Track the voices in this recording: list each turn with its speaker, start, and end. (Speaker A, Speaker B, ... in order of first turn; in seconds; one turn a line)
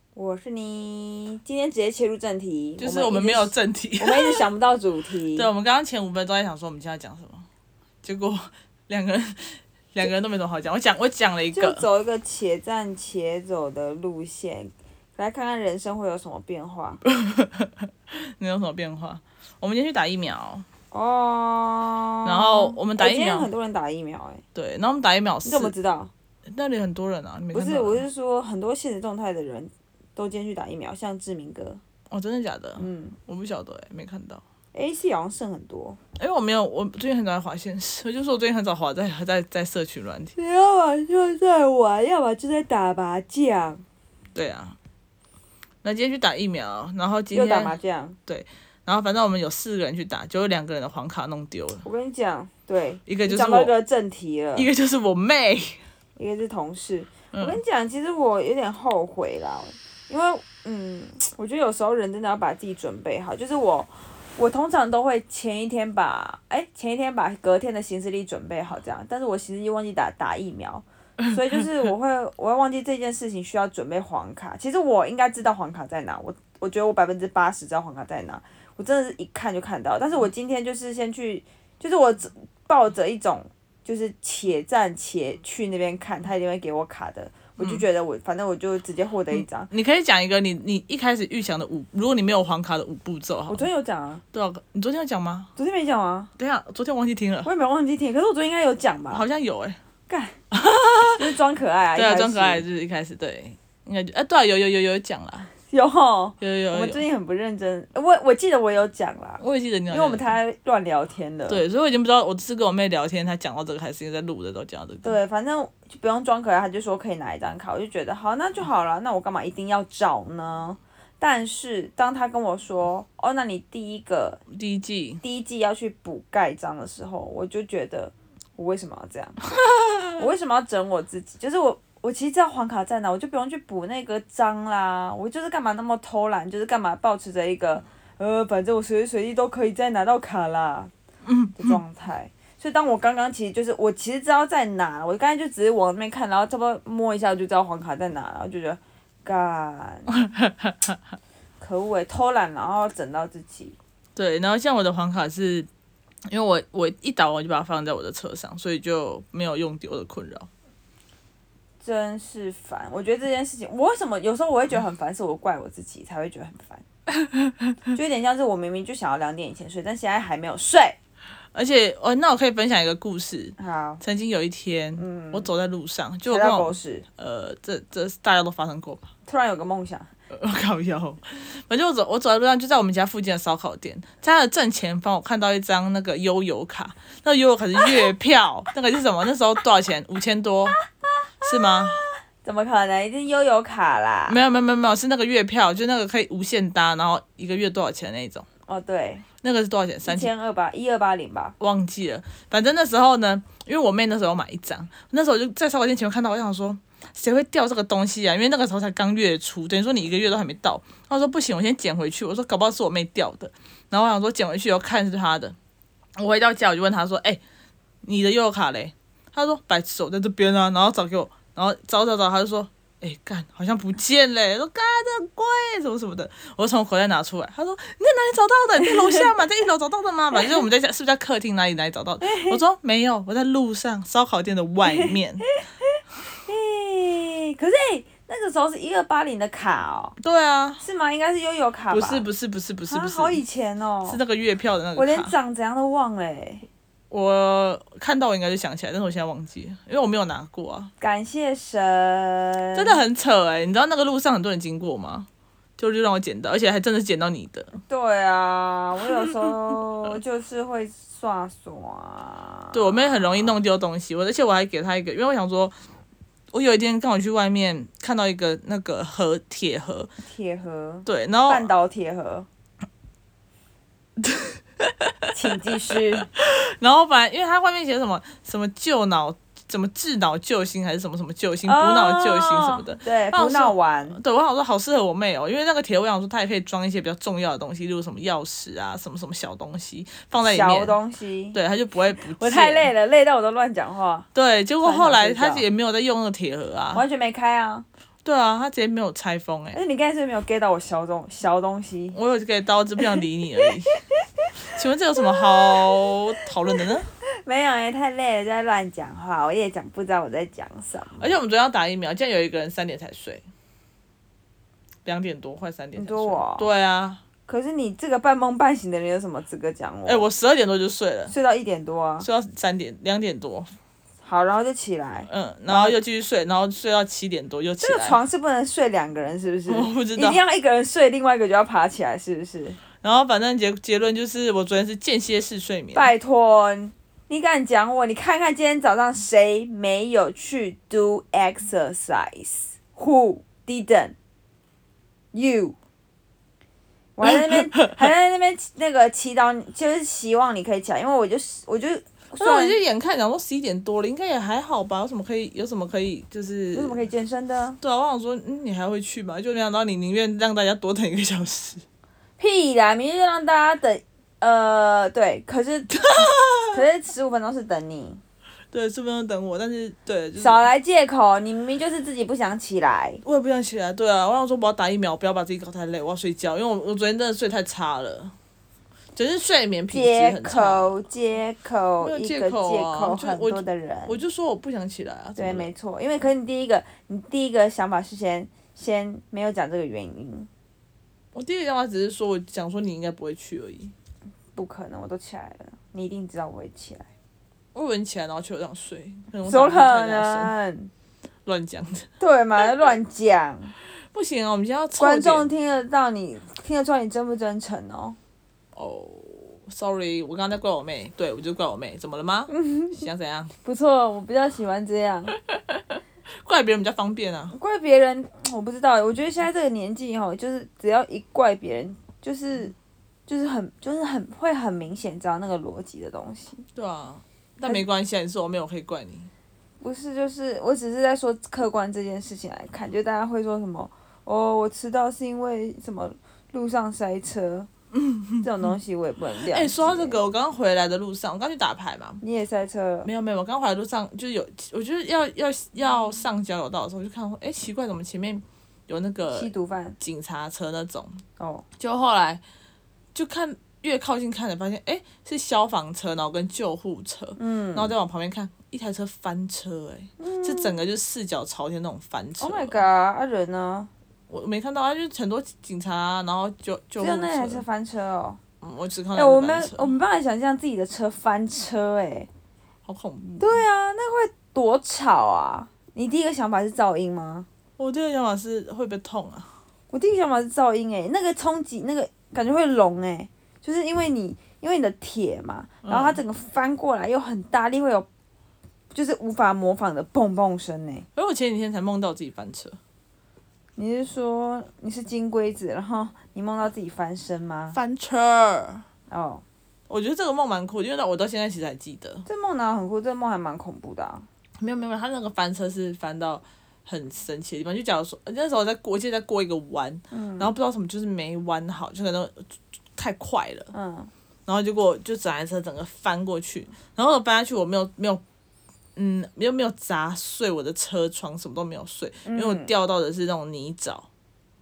Speaker A: 0.1-5.5
Speaker B: 2.8-4.5
Speaker B: 5.3-7.5
Speaker B: 8.0-11.8
Speaker A: 11.5-17.0
Speaker B: 17.1-20.6
Speaker A: 20.9-24.4
Speaker B: 22.2-23.5
Speaker B: 24.5-25.7
Speaker A: 25.4-26.1
Speaker B: 26.5-28.0
Speaker A: 27.5-31.8
Speaker B: 32.1-34.4
Speaker A: 32.8-33.1
Speaker A: 34.7-36.0
Speaker B: 36.2-40.3
Speaker A: 40.3-43.8
Speaker B: 44.3-44.8
Speaker B: 45.8-51.8
Speaker A: 47.3-48.2
Speaker A: 51.8-54.7
Speaker B: 53.0-53.7
Speaker B: 54.5-55.8
Speaker A: 56.2-89.7
Speaker B: 57.3-57.6
Speaker B: 87.6-87.8
Speaker B: 89.4-93.7
Speaker A: 93.5-94.2
Speaker B: 94.3-95.5
Speaker A: 95.5-96.3
Speaker B: 96.4-97.5
Speaker A: 97.4-99.2
Speaker B: 99.1-99.8
Speaker A: 100.1-100.4
Speaker B: 100.5-101.2
Speaker A: 101.2-102.6
Speaker B: 102.0-105.5
Speaker A: 105.7-111.6
Speaker B: 106.4-107.0
Speaker B: 109.4-110.3
Speaker B: 111.5-115.2
Speaker A: 115.0-124.4
Speaker B: 124.5-125.2
Speaker A: 125.2-129.4
Speaker B: 129.6-130.1
Speaker A: 130.2-140.9
Speaker B: 141.2-141.8
Speaker A: 141.6-150.1
Speaker B: 150.2-150.9
Speaker A: 151.6-153.8
Speaker B: 154.2-155.7
Speaker B: 156.3-160.5
Speaker A: 161.8-166.8
Speaker A: 167.9-170.9
Speaker B: 171.5-179.1
Speaker A: 173.6-174.0
Speaker A: 175.0-175.5
Speaker A: 176.3-177.1
Speaker A: 179.3-180.1
Speaker B: 180.3-190.8
Speaker B: 191.4-192.0
Speaker A: 191.8-194.4
Speaker B: 194.3-198.4
Speaker A: 198.7-199.2
Speaker B: 199.4-200.3
Speaker A: 200.0-201.6
Speaker B: 201.6-215.6
Speaker B: 216.2-217.4
Speaker B: 218.0-235.4
Speaker A: 232.2-232.6
Speaker A: 234.9-235.4
Speaker A: 236.4-240.2
Speaker B: 240.2-240.8
Speaker A: 240.8-242.2
Speaker B: 241.9-243.4
Speaker A: 242.9-244.2
Speaker B: 244.1-245.3
Speaker A: 244.9-246.7
Speaker B: 247.1-250.9
Speaker A: 251.0-253.0
Speaker B: 252.7-257.7
Speaker A: 257.9-263.5
Speaker B: 262.7-265.7
Speaker B: 266.5-270.1
Speaker A: 270.2-272.5
Speaker B: 271.1-271.7
Speaker B: 274.2-275.3
Speaker A: 275.3-276.3
Speaker B: 276.3-291.0
Speaker A: 281.6-284.2
Speaker A: 290.4-291.6
Speaker B: 291.5-292.9
Speaker A: 292.3-294.3
Speaker B: 294.3-297.0
Speaker A: 294.8-295.6
Speaker A: 296.9-297.9
Speaker B: 298.2-299.8
Speaker A: 299.7-302.2
Speaker B: 302.1-304.0
Speaker B: 304.6-307.1
Speaker A: 307.4-311.3
Speaker B: 311.2-313.4
Speaker B: 315.0-317.2
Speaker A: 315.9-316.7
Speaker A: 317.5-320.3
Speaker B: 320.1-321.3
Speaker A: 321.3-322.3
Speaker B: 322.2-323.7
Speaker A: 324.2-326.0
Speaker B: 325.2-328.2
Speaker A: 327.8-332.8
Speaker B: 329.7-330.4
Speaker B: 333.0-336.1
Speaker A: 335.9-344.1
Speaker A: 345.3-345.8
Speaker A: 347.1-352.8
Speaker B: 347.2-347.9
Speaker B: 352.4-357.0
Speaker A: 356.7-357.8
Speaker B: 357.8-361.8
Speaker A: 362.4-368.2
Speaker B: 365.9-366.8
Speaker B: 368.7-370.6
Speaker A: 370.4-373.2
Speaker B: 373.2-378.3
Speaker B: 379.1-380.9
Speaker A: 379.9-384.2
Speaker B: 382.0-385.7
Speaker A: 385.4-390.5
Speaker B: 391.3-393.9
Speaker A: 394.5-397.1
Speaker B: 397.7-400.5
Speaker A: 399.4-400.9
Speaker B: 401.4-402.1
Speaker A: 402.2-403.7
Speaker B: 404.1-405.5
Speaker A: 405.0-408.2
Speaker B: 408.7-413.5
Speaker A: 412.5-413.1
Speaker A: 413.6-415.3
Speaker B: 415.3-417.6
Speaker A: 417.5-422.7
Speaker A: 423.3-426.6
Speaker B: 426.7-429.3
Speaker A: 429.8-437.7
Speaker B: 437.9-438.5
Speaker A: 438.4-440.2
Speaker B: 439.4-442.2
Speaker A: 442.2-443.1
Speaker B: 443.0-451.2
Speaker A: 449.3-450.0
Speaker A: 451.4-451.6
Speaker B: 451.8-452.4
Speaker B: 453.1-462.8
Speaker A: 457.4-457.9
Speaker A: 460.2-460.8
Speaker A: 462.4-463.9
Speaker B: 464.3-467.6
Speaker A: 467.0-468.4
Speaker B: 468.6-469.9
Speaker A: 469.1-472.3
Speaker B: 472.8-473.6
Speaker A: 473.4-477.5
Speaker B: 477.8-479.5
Speaker A: 479.9-488.1
Speaker B: 485.8-486.2
Speaker A: 488.9-491.1
Speaker B: 491.1-492.8
Speaker A: 493.8-497.8
Speaker B: 497.7-498.8
Speaker A: 499.1-499.4
Speaker B: 499.9-502.2
Speaker A: 502.2-504.2
Speaker B: 504.6-513.7
Speaker A: 510.1-510.5
Speaker A: 513.7-514.1
Speaker B: 514.5-518.2
Speaker B: 518.9-524.1
Speaker A: 522.3-522.7